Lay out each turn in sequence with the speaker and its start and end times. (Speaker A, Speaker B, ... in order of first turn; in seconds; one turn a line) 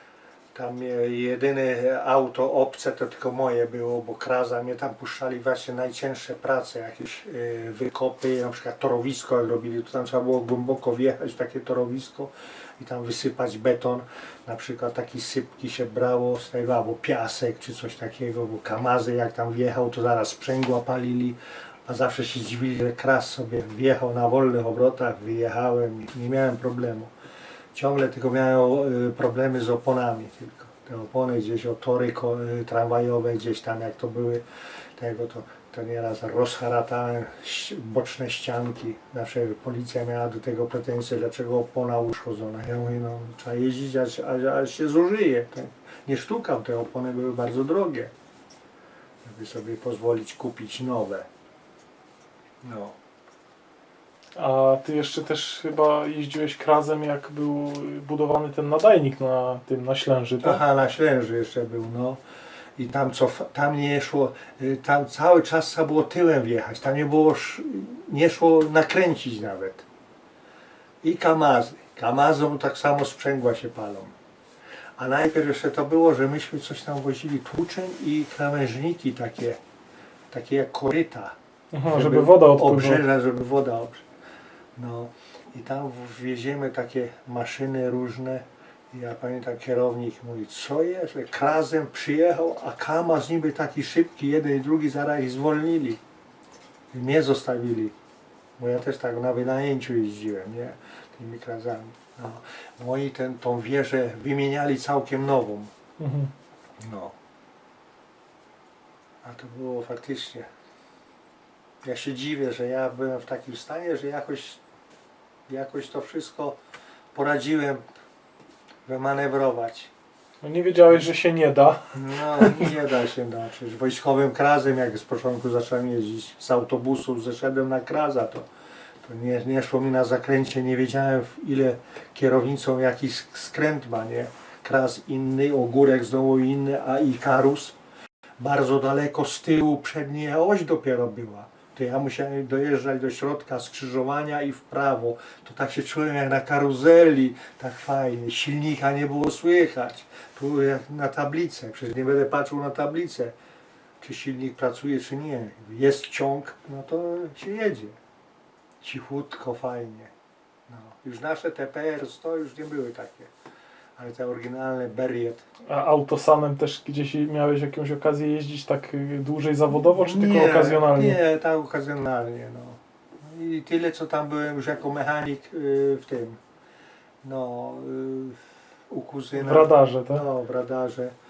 Speaker A: 0.5-27.1
Speaker A: 27.7-34.4
Speaker A: 35.0-48.1
Speaker A: 49.2-51.3
Speaker A: 52.6-53.0
Speaker B: 54.4-60.6
Speaker A: 60.4-62.2
Speaker A: 62.8-69.8
Speaker A: 71.0-74.2
Speaker A: 75.0-79.6
Speaker A: 80.3-84.0
Speaker B: 81.7-83.0
Speaker A: 84.8-96.0
Speaker A: 96.9-98.0
Speaker A: 98.6-105.7
Speaker B: 106.0-106.3
Speaker A: 106.8-107.2
Speaker A: 109.2-110.5
Speaker A: 111.8-114.6
Speaker A: 115.5-116.6
Speaker A: 117.1-117.8
Speaker A: 118.9-119.9
Speaker B: 120.4-122.8
Speaker A: 121.9-128.5
Speaker A: 129.0-137.8
Speaker A: 138.4-153.4
Speaker A: 154.0-158.0
Speaker A: 158.8-160.1
Speaker A: 160.7-163.3
Speaker A: 164.0-165.5
Speaker B: 165.7-171.2
Speaker A: 169.9-176.4
Speaker A: 177.2-181.2
Speaker B: 179.3-180.3